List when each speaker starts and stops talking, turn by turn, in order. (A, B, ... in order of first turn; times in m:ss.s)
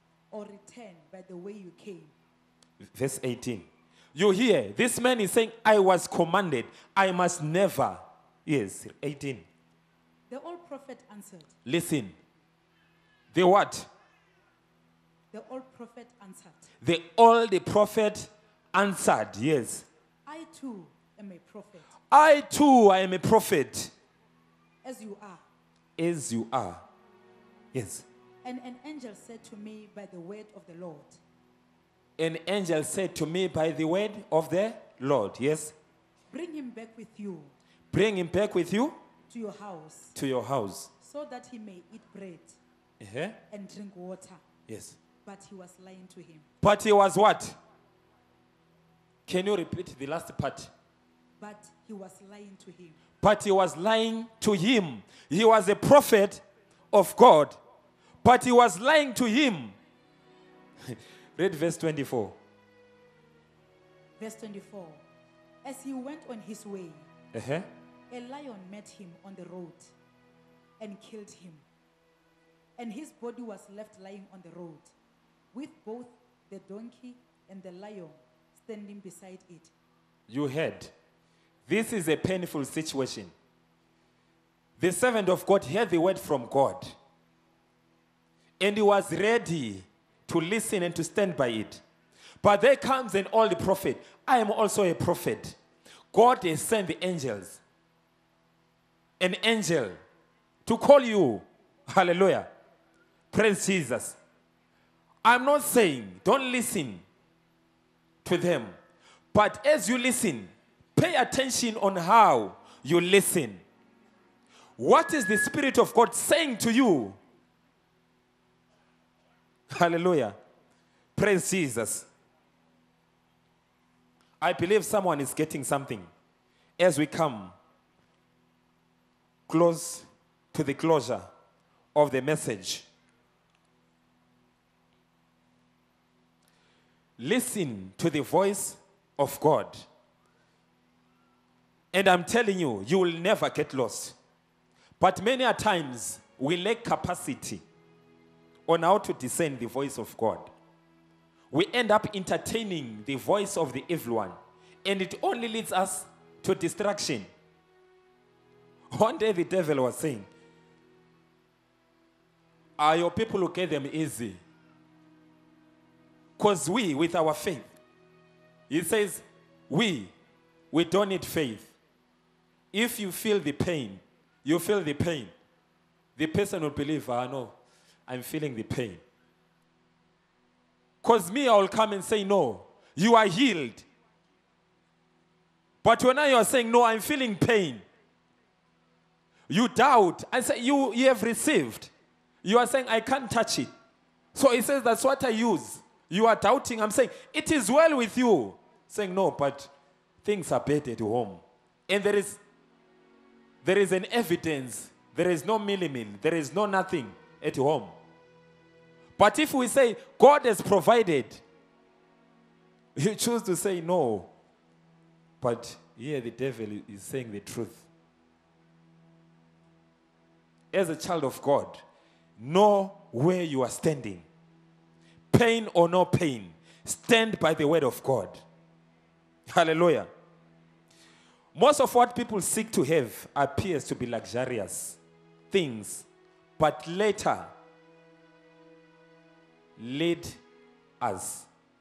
0:00.3-0:02.1 A
0:02.9-0:09.5 B
0:10.3-0:11.6 A
0:11.7-0:12.1 B
0:13.3-0:13.9 B
0:15.3-0:16.7 A
0:16.8-0:19.9 B
0:20.3-0:21.9 A
0:22.1-0:23.9 B
0:24.8-0:25.4 A
0:26.0-0:26.8 B
0:27.7-0:28.1 B
0:28.4-0:31.2 A
0:32.2-0:35.8 B
0:36.3-0:37.5 A
0:37.9-0:39.0 B
0:39.3-0:40.1 A
0:40.1-0:40.9 B
0:41.0-0:42.6 A
0:43.0-0:43.4 B
0:43.5-0:44.4 A
0:44.7-0:45.0 B
0:45.2-0:46.5 A
0:46.6-0:47.6 B
0:49.3-0:50.7 B
0:51.4-0:53.0 A
0:53.2-0:57.6 B
0:58.2-0:59.8 B
1:00.9-1:02.4 B
1:04.2-1:05.0 A
1:05.6-1:07.1 A
1:07.3-1:07.7 B
1:08.1-1:09.9 A
1:10.8-1:11.6 A
1:12.8-1:14.9 A
1:15.5-1:19.7 A
1:20.3-1:20.9 B
1:21.7-1:23.3 B
1:24.8-1:27.0 B
1:28.6-1:31.8 B
1:32.4-1:35.6 B
1:36.1-1:37.6 B
1:39.2-1:40.0 B
1:40.6-1:42.5 B
1:43.3-1:44.2 B
1:45.2-1:47.0 B
1:48.2-1:48.8 B
1:49.3-1:53.6 B
1:54.8-1:57.2 B
1:59.7-2:00.4 B
2:01.2-2:02.1 B
2:04.4-2:06.1 B
2:06.8-2:07.6 B
2:09.5-2:11.3 B
2:12.0-2:12.9 B
2:17.2-2:19.9 B
2:21.9-2:24.2 B
2:25.0-2:27.6 B
2:28.7-2:30.5 B
2:31.5-2:37.3 B
2:38.9-2:40.3 B
2:42.8-2:44.4 B
2:46.4-2:47.7 B
2:48.7-2:50.1 B
2:50.7-2:51.7 B
2:52.7-2:55.3 B
2:56.2-2:57.6 B
2:58.1-2:59.0 B
3:01.0-3:03.9 B
3:05.8-3:07.8 B
3:09.5-3:11.9 B
3:12.4-3:13.7 B
3:14.3-3:19.7 B
3:20.2-3:22.4 B
3:23.6-3:28.0 B
3:29.2-3:31.4 B
3:33.0-3:34.3 B
3:35.4-3:37.9 B
3:40.7-3:41.8 B
3:42.4-3:44.3 B
3:45.3-3:48.4 B
3:49.5-3:50.1 B
3:51.5-3:55.0 B
3:55.5-3:56.1 B
3:56.6-3:57.5 B
3:59.8-4:00.4 B
4:01.0-4:01.5 B